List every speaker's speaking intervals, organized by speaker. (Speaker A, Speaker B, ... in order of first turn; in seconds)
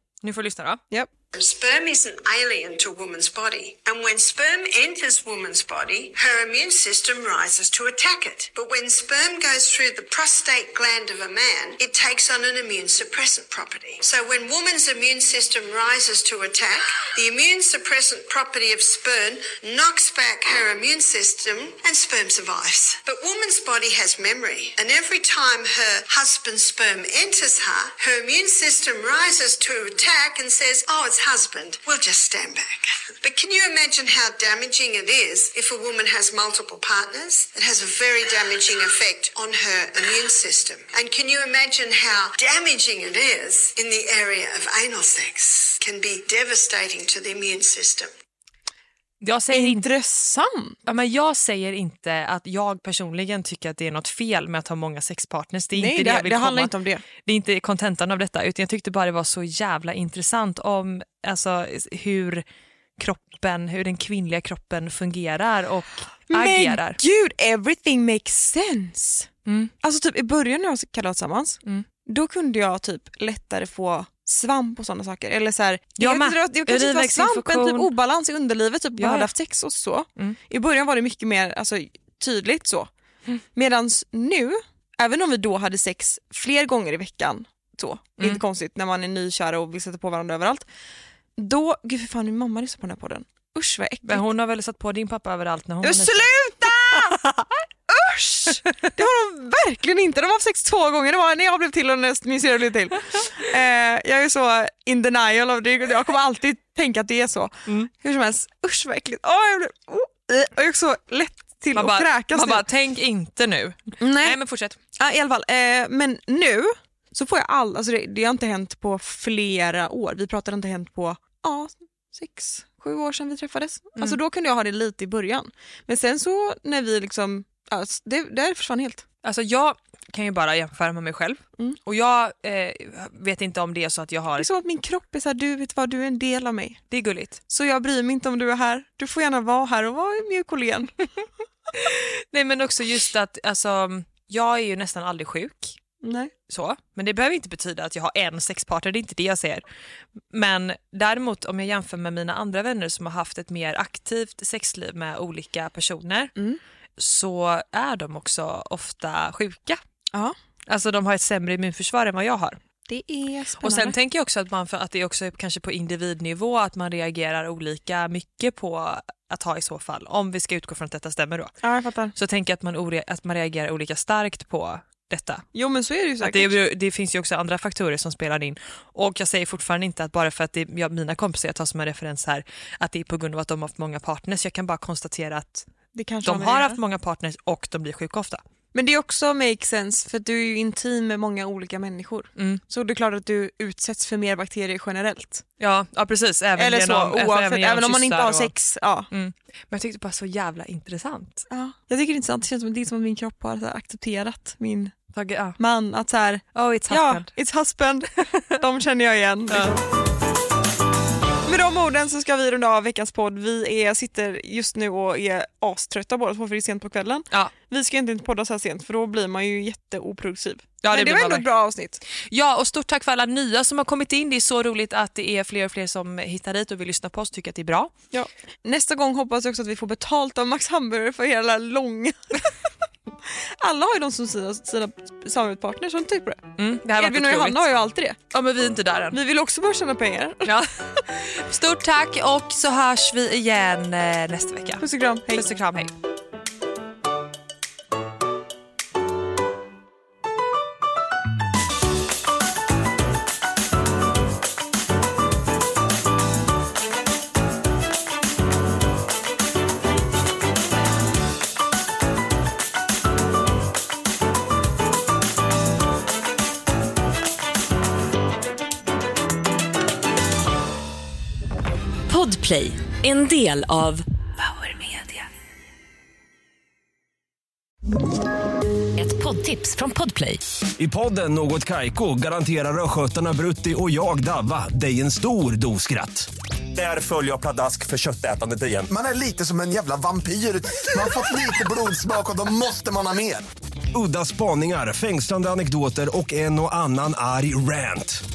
Speaker A: 0.2-0.8, 49.2-49.8, 50.9-62.4, 63.0-67.0, 69.5-69.7, 76.0-77.9, 79.0-79.3, 94.0-97.4, 111.7-114.8, 129.2-134.5, 136.9-137.4, 141.7-145.8, 146.5-149.6, 150.3-156.3, 157.0-159.8, 160.7-162.6, 163.6-171.5, 172.1-175.5, 176.2-185.7, 186.2-188.4, 192.3-192.6, 195.6-198.5, 199.1-201.5, 205.1-205.6, 206.5-207.3, 209.5-209.8, 220.8-221.5, 222.2-227.9, 236.6-237.7, 238.3-239.2, 240.4-245.9
Speaker B: 1.3-48.1
Speaker C: 49.5-50.8, 55.7-57.0, 66.3-69.3, 69.8-82.9, 83.5-90.7, 91.4-94.2, 95.8-97.2, 97.9-112.6, 114.0-114.4, 115.0-129.0, 134.4-136.8, 137.5-140.9, 146.0-146.3, 162.9-163.9, 171.6-172.1, 175.5-176.5, 185.9-186.8, 188.7-195.4, 196.6-199.1, 201.5-204.9, 205.6-209.8, 211.4-222.0, 228.1-232.5, 233.4-238.2, 239.1-240.5, 244.8-245.4
Speaker D: 272.1-275.3, 279.0-280.4
Speaker E: 280.8-288.9, 293.9-298.2
Speaker F: 288.9-293.4